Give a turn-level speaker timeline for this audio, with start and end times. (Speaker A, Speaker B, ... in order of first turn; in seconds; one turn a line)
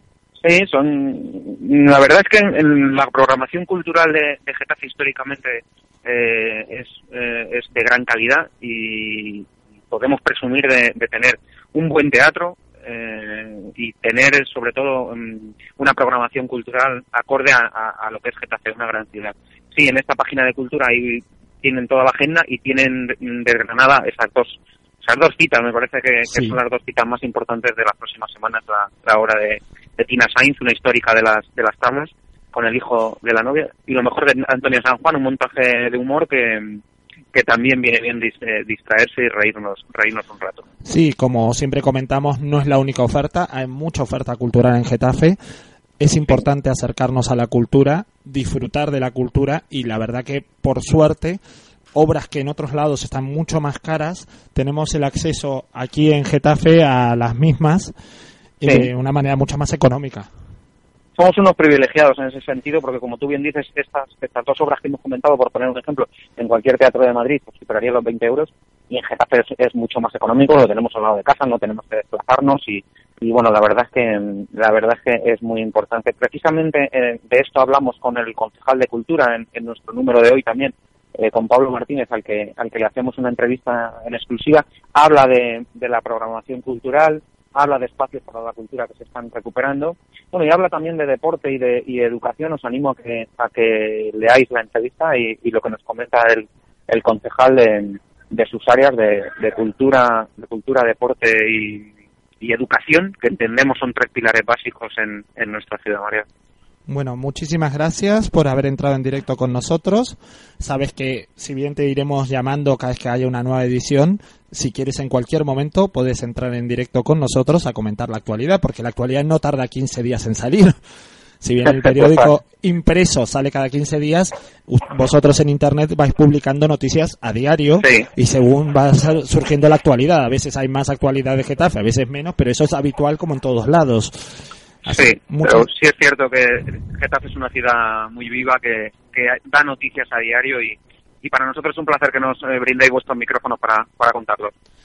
Speaker A: 0.4-36.8
Speaker B: 26.3-26.6
Speaker A: 37.3-40.6
Speaker B: 40.8-45.4
Speaker B: 46.0-51.4
Speaker B: 51.9-57.9
Speaker B: 58.6-60.3
Speaker A: 58.6-58.9
Speaker A: 61.1-106.2
Speaker B: 106.9-120.7
Speaker B: 121.4-135.7
Speaker A: 121.8-122.3
Speaker A: 127.8-128.1
Speaker A: 134.9-144.5